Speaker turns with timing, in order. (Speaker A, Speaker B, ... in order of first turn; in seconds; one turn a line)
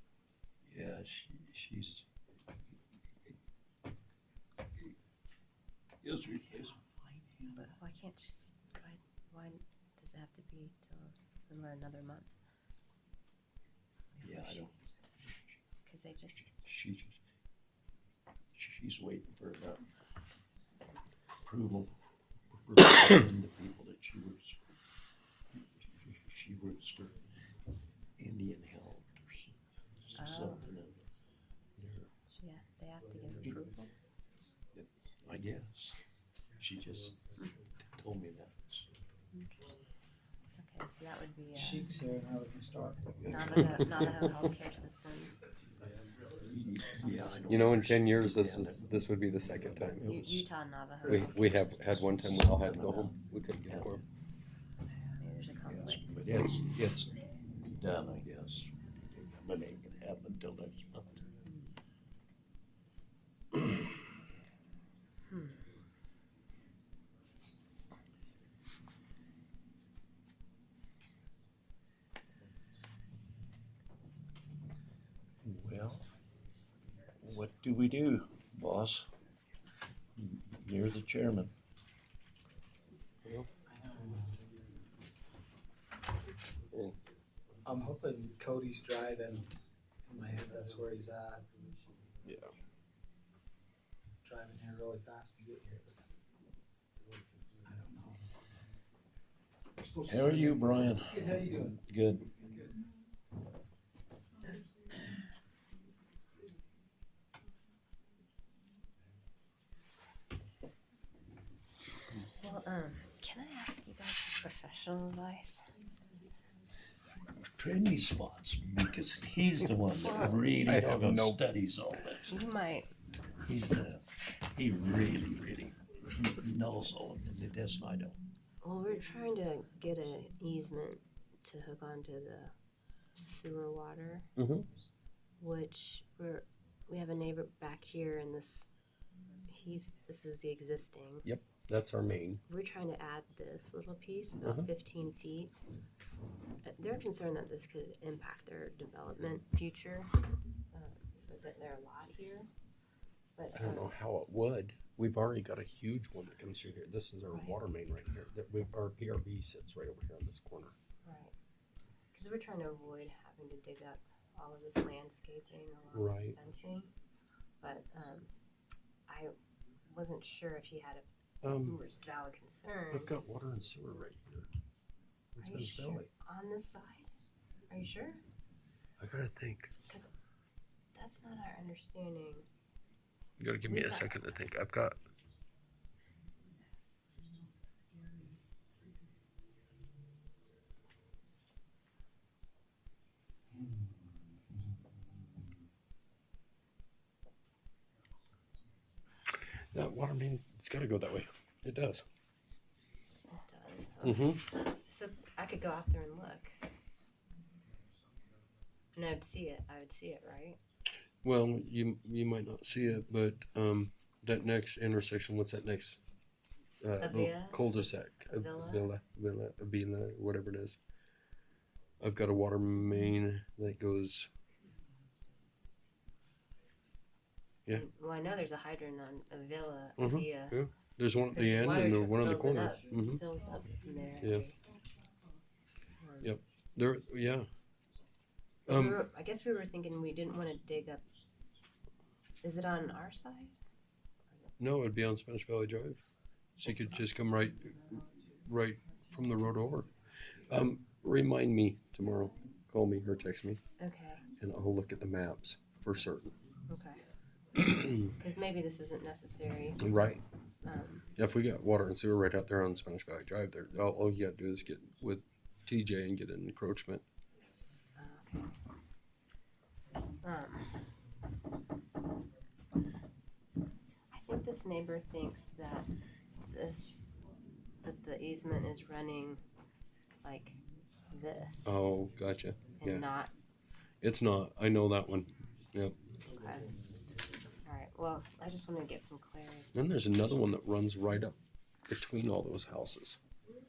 Speaker A: 0.6-2.1
Speaker A: 6.0-7.5
Speaker B: 7.5-12.3
Speaker A: 14.2-14.8
Speaker B: 14.2-14.7
Speaker B: 15.8-16.5
Speaker A: 16.6-17.2
Speaker A: 18.5-19.9
Speaker A: 21.4-21.9
Speaker A: 22.6-24.6
Speaker A: 25.9-27.2
Speaker A: 28.2-29.5
Speaker A: 30.1-31.0
Speaker B: 30.1-30.7
Speaker A: 31.8-32.0
Speaker B: 32.3-33.9
Speaker A: 34.7-36.0
Speaker A: 36.6-38.9
Speaker B: 39.3-39.6
Speaker B: 40.6-41.9
Speaker C: 41.5-43.3
Speaker A: 43.2-43.8
Speaker B: 43.3-45.5
Speaker D: 43.8-44.3
Speaker A: 46.5-48.8
Speaker D: 47.5-50.1
Speaker A: 50.0-50.4
Speaker B: 50.0-52.1
Speaker D: 51.1-54.0
Speaker A: 52.0-53.1
Speaker A: 53.7-54.0
Speaker B: 55.1-56.1
Speaker A: 55.7-57.2
Speaker A: 57.7-61.2
Speaker B: 65.3-65.6
Speaker A: 75.4-76.1
Speaker A: 77.2-79.1
Speaker A: 80.2-81.5
Speaker D: 83.2-83.5
Speaker C: 83.7-84.4
Speaker C: 87.6-89.5
Speaker C: 90.0-91.5
Speaker D: 92.2-92.5
Speaker C: 94.2-96.1
Speaker C: 97.6-98.2
Speaker A: 99.9-102.3
Speaker B: 112.4-115.7
Speaker A: 117.5-122.4
Speaker D: 120.7-121.4
Speaker B: 122.2-122.9
Speaker A: 123.4-128.2
Speaker B: 128.6-132.5
Speaker B: 133.1-134.3
Speaker D: 134.3-134.7
Speaker B: 135.4-138.7
Speaker B: 139.5-141.2
Speaker D: 141.2-142.4
Speaker B: 142.5-145.5
Speaker D: 144.4-144.7
Speaker B: 146.6-150.1
Speaker B: 150.7-152.5
Speaker B: 153.4-153.9
Speaker D: 153.5-160.7
Speaker B: 157.3-157.6
Speaker B: 161.0-161.3
Speaker B: 162.1-166.9
Speaker D: 165.9-166.3
Speaker B: 167.6-168.3
Speaker B: 169.1-169.3
Speaker B: 169.9-171.0
Speaker D: 171.4-171.8
Speaker B: 171.6-173.1
Speaker D: 172.9-174.5
Speaker D: 175.3-176.1
Speaker B: 175.4-177.1
Speaker B: 177.7-178.2
Speaker D: 179.0-179.7
Speaker B: 180.9-182.4
Speaker D: 183.4-185.0
Speaker B: 183.7-184.2
Speaker D: 199.7-202.0
Speaker B: 203.3-206.5
Speaker D: 204.0-204.4
Speaker B: 208.9-210.6
Speaker D: 211.2-216.0
Speaker D: 216.8-220.8
Speaker B: 217.0-218.9
Speaker D: 222.0-224.3
Speaker B: 227.7-230.6
Speaker D: 230.0-233.2
Speaker B: 231.3-234.6
Speaker B: 236.0-236.3
Speaker D: 236.2-237.5
Speaker D: 238.7-239.0
Speaker B: 238.7-241.0
Speaker B: 242.4-243.5
Speaker D: 244.6-246.0
Speaker D: 246.6-249.9
Speaker B: 246.6-247.0
Speaker D: 250.5-253.6
Speaker B: 253.8-254.3
Speaker D: 254.4-256.3
Speaker B: 256.7-257.0
Speaker D: 257.7-258.1
Speaker B: 258.0-259.8
Speaker D: 259.8-260.2
Speaker B: 260.6-261.1
Speaker D: 261.1-267.0
Speaker B: 267.9-268.5
Speaker B: 270.2-270.8
Speaker B: 274.1-275.9
Speaker B: 276.4-277.1
Speaker B: 277.8-279.4
Speaker B: 280.2-280.6
Speaker B: 281.1-281.8
Speaker D: 281.6-283.1
Speaker B: 282.8-283.3
Speaker D: 284.0-285.9
Speaker B: 286.3-286.8
Speaker B: 287.6-289.7
Speaker D: 289.7-291.4
Speaker D: 291.9-293.2